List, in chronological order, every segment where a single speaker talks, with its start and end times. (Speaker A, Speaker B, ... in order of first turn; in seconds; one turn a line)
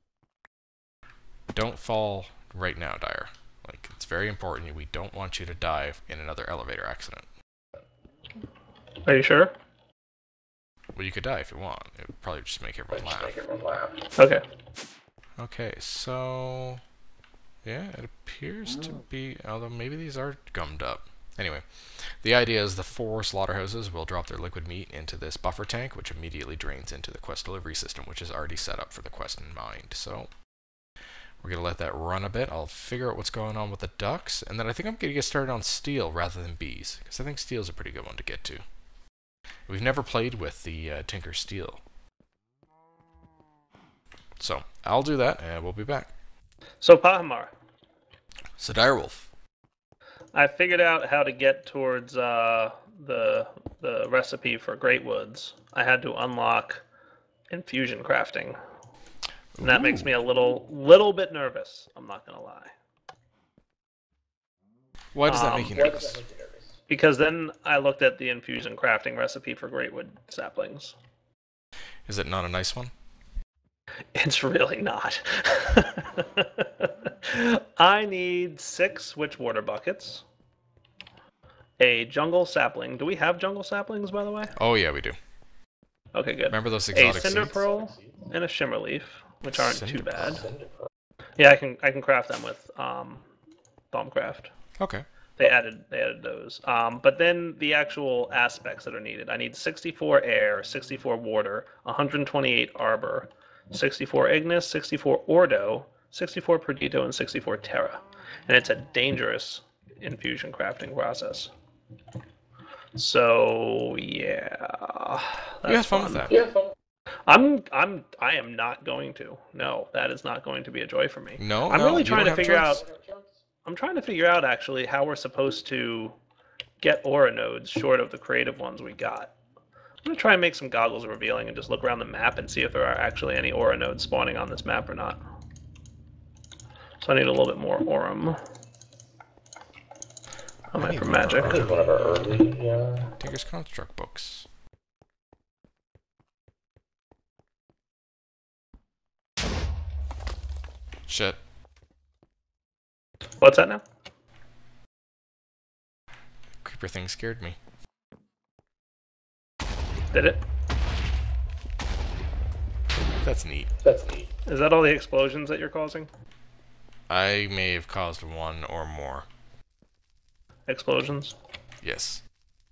Speaker A: 1.5-7.2
Speaker B: 9.1-9.5
Speaker A: 10.9-13.4
Speaker C: 13.0-14.0
Speaker B: 14.2-14.4
Speaker A: 15.4-16.8
Speaker A: 17.6-30.3
Speaker A: 31.4-38.6
Speaker A: 39.7-41.8
Speaker A: 44.4-46.1
Speaker B: 46.8-47.5
Speaker A: 48.6-49.3
Speaker B: 50.3-56.8
Speaker B: 57.5-58.6
Speaker A: 59.5-60.1
Speaker B: 59.6-62.7
Speaker A: 65.1-66.2
Speaker B: 65.3-65.8
Speaker C: 65.6-66.7
Speaker B: 66.9-70.9
Speaker A: 72.0-72.9
Speaker B: 74.1-80.2
Speaker B: 81.8-84.5
Speaker A: 84.6-85.2
Speaker B: 86.1-90.5
Speaker A: 86.5-87.6
Speaker C: 87.5-88.0
Speaker A: 89.5-90.4
Speaker C: 90.4-90.8
Speaker B: 91.4-93.2
Speaker B: 93.9-94.5
Speaker A: 94.8-95.0
Speaker B: 95.4-111.5
Speaker B: 113.0-116.3
Speaker A: 115.7-116.4
Speaker C: 116.3-116.7
Speaker B: 117.3-122.8
Speaker A: 121.4-122.8
Speaker C: 122.2-123.3
Speaker B: 123.6-126.1
Speaker B: 126.8-129.3
Speaker B: 130.0-135.2
Speaker B: 137.0-138.4
Speaker B: 140.7-141.6
Speaker A: 140.8-141.7
Speaker C: 141.4-143.1
Speaker A: 143.2-144.5
Speaker A: 151.1-151.4
Speaker B: 153.4-153.8
Speaker A: 156.6-157.6
Speaker B: 160.1-160.4
Speaker A: 163.2-163.7
Speaker C: 163.8-164.3
Speaker B: 164.4-166.1
Speaker A: 167.1-169.2
Speaker B: 170.7-171.3
Speaker A: 171.8-172.2